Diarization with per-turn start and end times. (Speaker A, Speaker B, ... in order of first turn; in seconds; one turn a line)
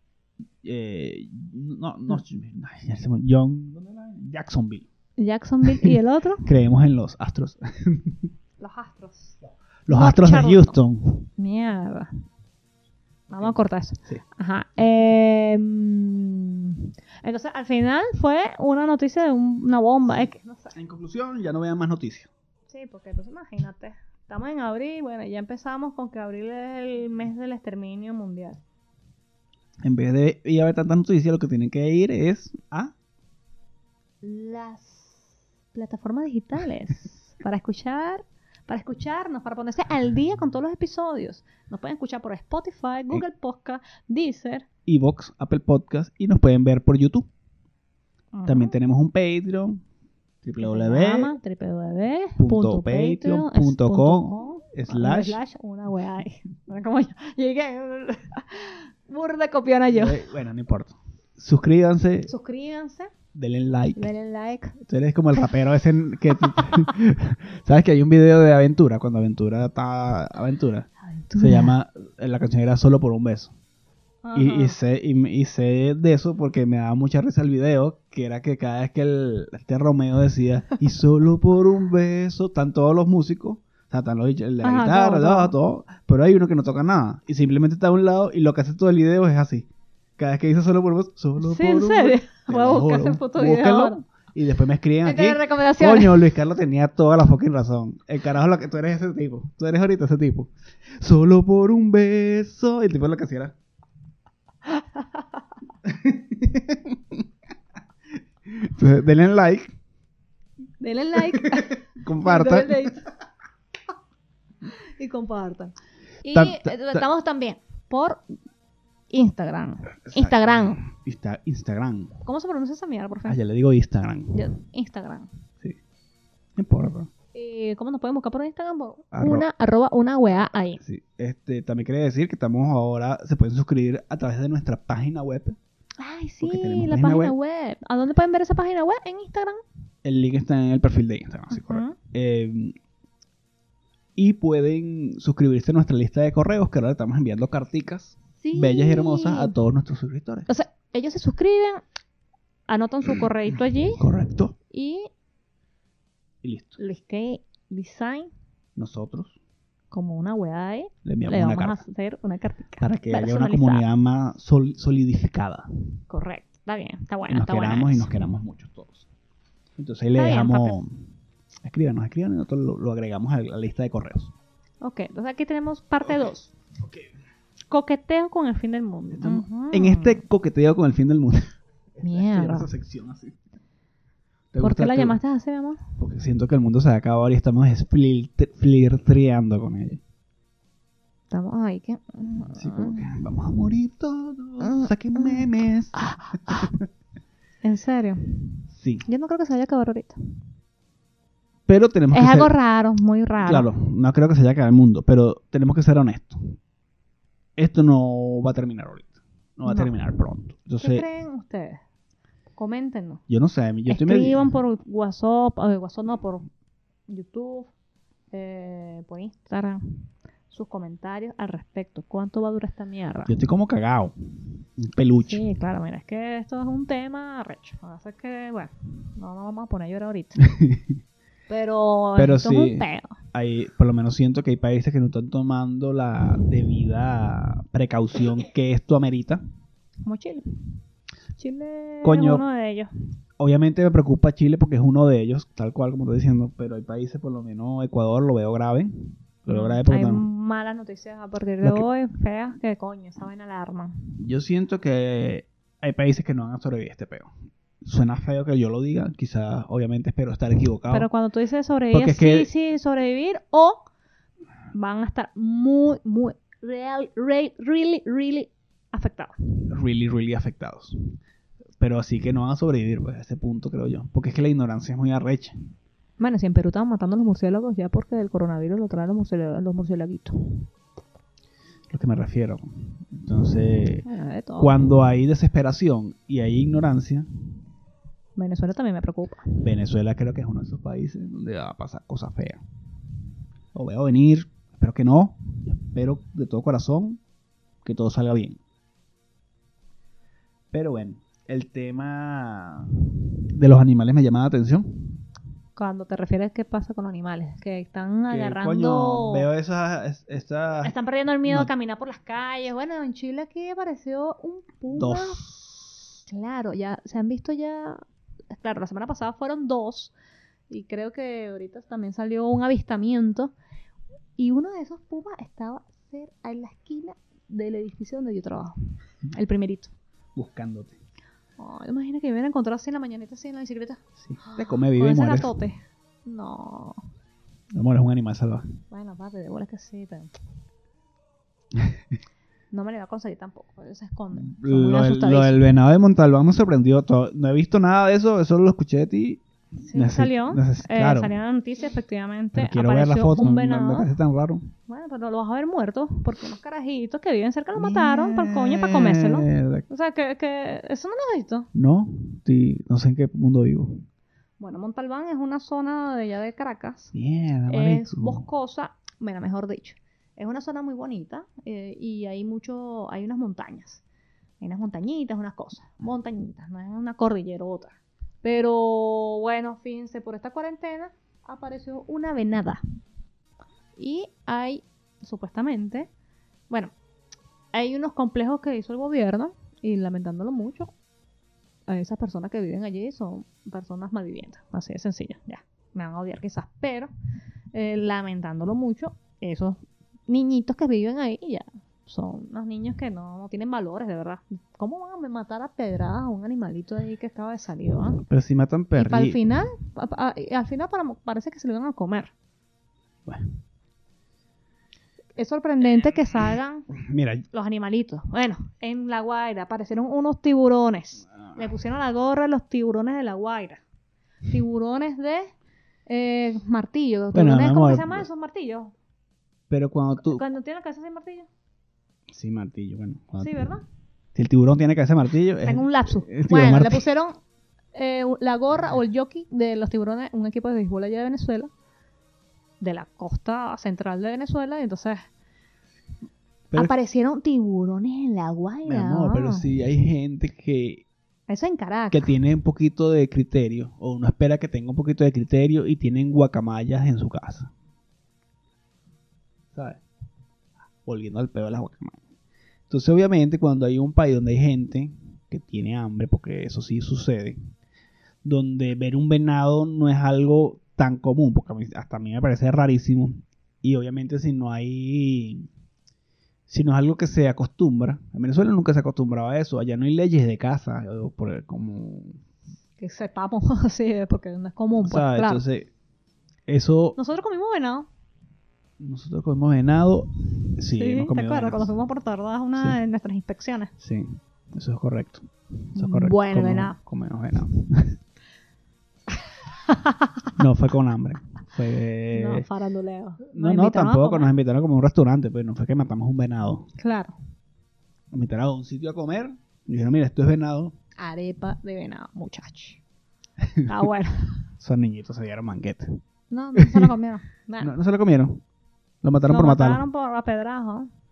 Speaker A: 0.6-4.9
Speaker B: 5.2-6.5
Speaker A: 6.4-8.3
Speaker B: 8.6-9.3
Speaker A: 9.8-11.3
Speaker B: 9.9-10.8
Speaker B: 11.4-12.1
Speaker B: 13.3-20.7
Speaker A: 20.7-22.3
Speaker B: 22.7-28.6
Speaker A: 29.8-32.9
Speaker B: 34.2-44.6
Speaker A: 44.9-47.3
Speaker B: 48.3-48.8
Speaker A: 48.5-49.8
Speaker A: 50.4-51.3
Speaker B: 50.6-60.2
Speaker A: 52.4-55.4
Speaker A: 59.9-62.3
Speaker B: 62.3-63.1
Speaker A: 63.3-64.1
Speaker B: 64.0-64.8
Speaker A: 64.8-73.5
Speaker B: 71.0-71.7
Speaker B: 74.2-74.8
Speaker A: 74.3-103.5
Speaker B: 84.6-85.5
Speaker B: 91.4-94.0
Speaker B: 95.0-96.2
Speaker B: 104.7-105.4
Speaker A: 105.8-107.2
Speaker A: 108.5-109.7
Speaker B: 110.8-113.0
Speaker A: 111.3-112.9
Speaker B: 114.8-118.2
Speaker A: 116.3-117.0
Speaker B: 119.1-120.8
Speaker A: 120.1-122.2
Speaker B: 122.2-123.4
Speaker A: 123.2-124.5
Speaker B: 124.3-125.3
Speaker A: 126.6-127.1
Speaker B: 127.3-130.8
Speaker A: 129.1-129.4
Speaker A: 130.8-135.6
Speaker B: 136.0-139.6
Speaker A: 136.4-137.3
Speaker A: 140.0-142.7
Speaker B: 141.5-141.9
Speaker A: 144.2-150.5
Speaker B: 148.4-149.5
Speaker B: 150.5-151.8
Speaker B: 152.7-154.1
Speaker A: 154.0-154.6
Speaker B: 154.7-155.1
Speaker A: 156.4-156.8
Speaker B: 156.8-158.3
Speaker A: 158.8-159.3
Speaker B: 159.9-163.8
Speaker A: 161.0-161.8
Speaker A: 162.8-165.7
Speaker B: 166.1-168.1
Speaker A: 167.3-169.1
Speaker A: 169.8-171.1
Speaker B: 170.2-170.8
Speaker A: 171.6-174.3
Speaker B: 174.8-176.5
Speaker B: 177.7-180.2
Speaker A: 179.1-183.3
Speaker B: 182.0-182.7
Speaker A: 184.5-185.2
Speaker B: 184.6-185.8
Speaker A: 186.0-190.0
Speaker B: 191.3-193.1
Speaker A: 192.5-196.8
Speaker B: 194.6-196.7
Speaker B: 197.6-200.2
Speaker A: 198.7-199.1
Speaker A: 201.7-202.5
Speaker B: 202.1-203.7
Speaker A: 203.4-206.6
Speaker A: 207.6-211.0
Speaker B: 209.7-209.9
Speaker B: 210.8-211.8
Speaker B: 212.6-213.2
Speaker A: 213.3-214.5
Speaker B: 213.9-216.4
Speaker B: 217.1-217.7
Speaker B: 218.3-219.8
Speaker B: 220.5-223.3
Speaker A: 223.3-224.1
Speaker A: 224.8-225.4
Speaker B: 225.2-230.4
Speaker A: 230.4-231.0
Speaker B: 231.5-233.2
Speaker A: 232.2-239.4
Speaker B: 240.0-240.4
Speaker B: 241.4-242.9
Speaker A: 242.0-242.4
Speaker A: 243.4-250.2
Speaker B: 249.5-254.0
Speaker A: 254.2-257.3
Speaker A: 257.8-261.1
Speaker B: 260.9-263.8
Speaker A: 261.9-262.5
Speaker B: 264.7-269.3
Speaker A: 269.7-271.0
Speaker A: 271.8-275.6
Speaker B: 276.2-280.7
Speaker A: 281.9-284.0
Speaker B: 284.0-284.7
Speaker A: 284.6-287.3
Speaker B: 288.4-289.5
Speaker A: 289.6-292.6
Speaker A: 293.7-297.2
Speaker A: 297.8-298.6
Speaker A: 300.7-303.0
Speaker A: 303.5-305.1
Speaker B: 305.8-309.5
Speaker A: 308.3-310.9
Speaker B: 310.8-315.4
Speaker A: 314.9-315.9
Speaker B: 316.3-320.1
Speaker B: 320.7-323.5
Speaker B: 324.4-328.8
Speaker B: 329.3-329.9
Speaker A: 330.3-331.0
Speaker B: 331.6-337.0
Speaker A: 334.2-335.5
Speaker A: 337.7-338.6
Speaker B: 338.9-340.3
Speaker B: 342.7-345.6
Speaker A: 344.3-351.3
Speaker B: 349.8-354.1
Speaker A: 352.5-354.7
Speaker B: 354.9-361.7
Speaker A: 357.8-359.8
Speaker A: 361.7-364.0
Speaker B: 364.6-367.1
Speaker A: 367.1-368.5
Speaker B: 367.7-374.0
Speaker B: 374.6-382.8
Speaker B: 383.9-386.1
Speaker B: 387.7-390.9
Speaker B: 391.9-397.1
Speaker B: 397.7-408.2
Speaker A: 408.2-409.4
Speaker B: 408.9-412.3
Speaker A: 413.3-413.6
Speaker B: 415.4-416.9
Speaker A: 416.9-417.4
Speaker B: 417.5-423.8
Speaker B: 424.5-425.5
Speaker B: 426.1-428.9
Speaker A: 427.3-428.3
Speaker A: 429.7-430.4
Speaker B: 430.2-431.5
Speaker A: 432.3-433.6
Speaker B: 433.4-433.8
Speaker A: 434.3-437.1
Speaker B: 435.6-437.4
Speaker B: 437.9-441.7
Speaker B: 442.8-445.2
Speaker B: 446.7-449.7
Speaker A: 448.9-451.1
Speaker B: 451.5-452.3
Speaker A: 452.1-457.7
Speaker A: 459.7-460.0
Speaker A: 461.0-462.2
Speaker A: 462.9-467.6
Speaker A: 468.4-475.7
Speaker A: 476.7-482.4
Speaker B: 483.0-485.6
Speaker A: 485.0-485.9
Speaker A: 486.7-487.2
Speaker B: 487.2-488.1
Speaker A: 489.0-491.9
Speaker B: 490.9-493.9
Speaker A: 494.0-498.2
Speaker B: 495.9-497.0
Speaker B: 499.7-500.5
Speaker A: 500.6-502.6
Speaker B: 502.3-504.5
Speaker A: 503.5-506.9
Speaker B: 507.0-507.4
Speaker A: 508.3-510.9
Speaker B: 511.2-513.0
Speaker A: 513.6-513.9
Speaker B: 513.9-514.6
Speaker A: 514.8-516.2
Speaker B: 516.5-517.9
Speaker A: 516.7-517.1
Speaker A: 517.8-518.6
Speaker A: 519.2-520.0
Speaker B: 519.5-521.1